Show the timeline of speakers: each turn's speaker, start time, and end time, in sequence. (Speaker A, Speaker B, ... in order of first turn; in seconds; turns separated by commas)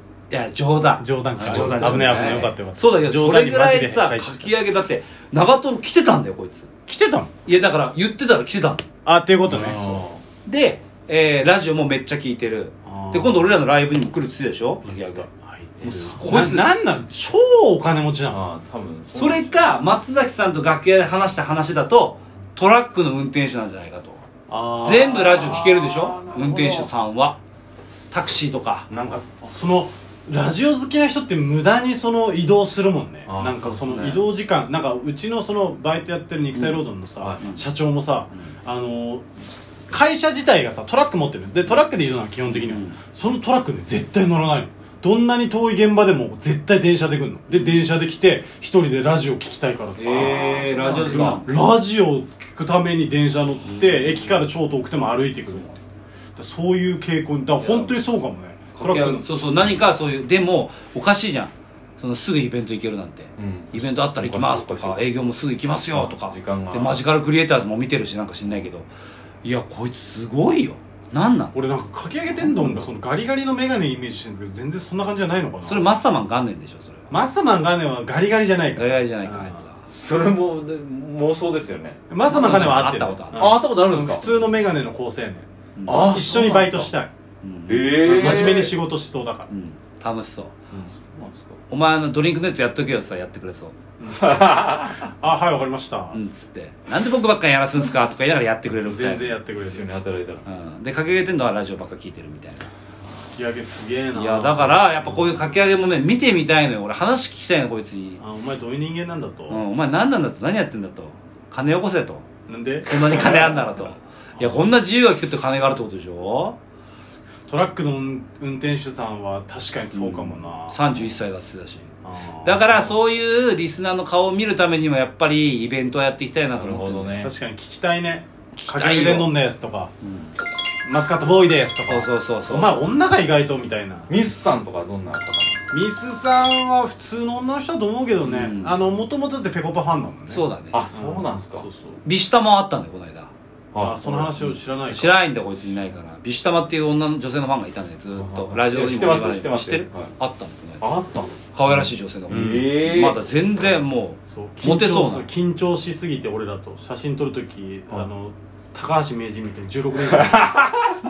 Speaker A: 0.3-6.7, Speaker B: 1.0-4.5, Speaker C: 1.5-2.5, Speaker B: 6.9-7.3, Speaker A: 7.4-8.8, Speaker B: 9.0-10.0, Speaker C: 9.4-10.2, Speaker A: 10.4-15.3, Speaker B: 12.9-13.5, Speaker B: 14.8-18.4, Speaker A: 15.8-16.9, Speaker C: 18.3-19.6, Speaker A: 19.1-24.2, Speaker B: 24.5-26.8, Speaker A: 24.8-27.4, Speaker A: 28.1-28.9, Speaker B: 28.9-39.3, Speaker C: 33.3-34.2, Speaker A: 36.5-36.8, Speaker B: 39.9-55.8, Speaker A: 42.5-43.0, Speaker A: 47.5-47.8, Speaker C: 50.0-51.5, Speaker A: 50.1-51.5, Speaker A: 53.6-54.5, Speaker B: 56.4-59.3, Speaker A: 57.6-58.0, Speaker A: 58.8-68.9, Speaker C: 63.4-65.1, Speaker C: 65.9-67.0, Speaker A: 69.4-71.5, Speaker B: 71.5-75.8, Speaker A: 75.6-77.1, Speaker B: 77.1-79.6, Speaker A: 78.8-79.8, Speaker C: 79.9-84.4, Speaker B: 82.1-87.1, Speaker A: 82.3-83.5, Speaker A: 85.8-86.6, Speaker C: 85.8-86.9, Speaker A: 87.4-88.7, Speaker C: 87.7-88.7, Speaker B: 88.0-89.5, Speaker A: 89.5-90.5, Speaker C: 91.0-91.6, Speaker A: 91.7-93.7, Speaker B: 94.0-96.2, Speaker C: 94.2-95.1, Speaker A: 96.1-99.4, Speaker B: 98.8-99.9, Speaker C: 99.6-100.4, Speaker A: 100.4-102.7, Speaker B: 103.3-105.4, Speaker A: 104.1-108.2, Speaker B: 108.2-109.6, Speaker A: 109.5-112.2, Speaker B: 112.5-113.8, Speaker A: 112.8-116.5, Speaker B: 114.4-114.7, Speaker B: 117.5-120.8, Speaker A: 119.9-121.9, Speaker B: 122.0-123.0, Speaker A: 122.4-127.2, Speaker C: 126.5-127.3, Speaker B: 127.2-129.9, Speaker A: 128.5-129.3, Speaker A: 130.0-130.3, Speaker B: 130.8-134.1, Speaker A: 131.9-132.8, Speaker C: 134.1-135.7, Speaker B: 135.7-142.0, Speaker A: 138.2-138.7, Speaker A: 140.3-140.8, Speaker C: 140.7-141.7, Speaker A: 142.0-143.3, Speaker C: 143.7-144.5, Speaker B: 143.8-145.2, Speaker A: 144.9-150.8, Speaker C: 148.1-150.1, Speaker C: 150.8-153.2, Speaker A: 151.5-155.3, Speaker B: 152.3-152.8, Speaker B: 154.3-160.7